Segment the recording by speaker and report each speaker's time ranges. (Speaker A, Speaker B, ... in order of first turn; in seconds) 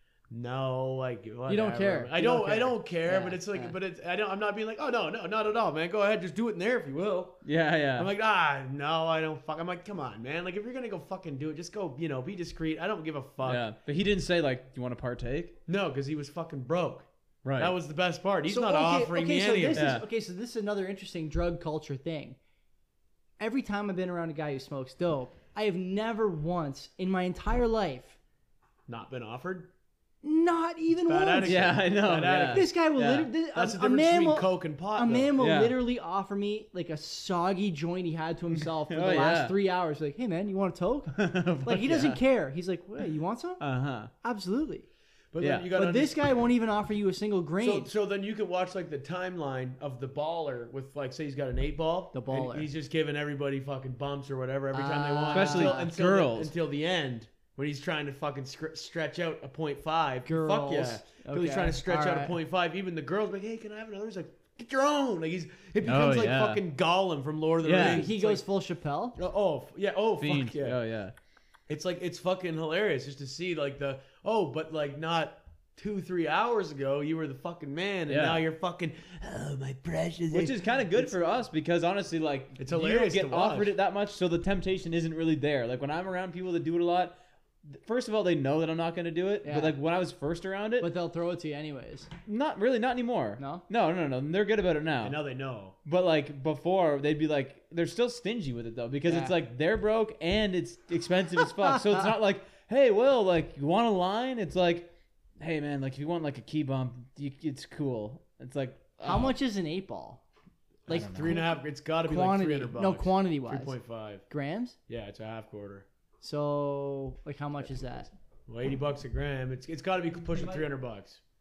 Speaker A: 0.3-7.4, 8.0-13.7, 15.7-19.9, 28.9-29.7, 31.0-32.8, 33.5-35.4, 45.3-46.2, 47.6-68.4, 69.2-70.8, 71.7-81.1, 82.6-83.7, 95.0-95.7, 110.9-114.2, 114.9-115.8, 118.5-121.2
Speaker B: 1.5-3.8, 18.5-22.4, 23.4-28.2, 30.2-31.8, 32.5-43.6, 44.2-44.9, 45.7-47.9, 52.1-52.7, 54.7-55.9, 60.2-62.4, 67.7-69.2, 89.4-89.8, 90.8-92.1, 93.4-93.7, 99.0-99.3, 109.0-110.2, 110.9-113.8, 114.3-114.8, 116.2-118.1
Speaker C: 7.4-8.1, 13.4-15.6, 17.4-17.7, 19.7-20.0, 31.4-33.3, 35.4-35.8, 38.5-39.6, 41.1-42.2, 43.6-44.1, 45.4-45.7, 55.3-56.5, 65.8-66.6, 67.6-68.1, 70.2-71.1, 78.1-78.4, 80.3-90.9, 92.2-95.2, 95.8-109.3, 110.9-111.3, 120.3-120.6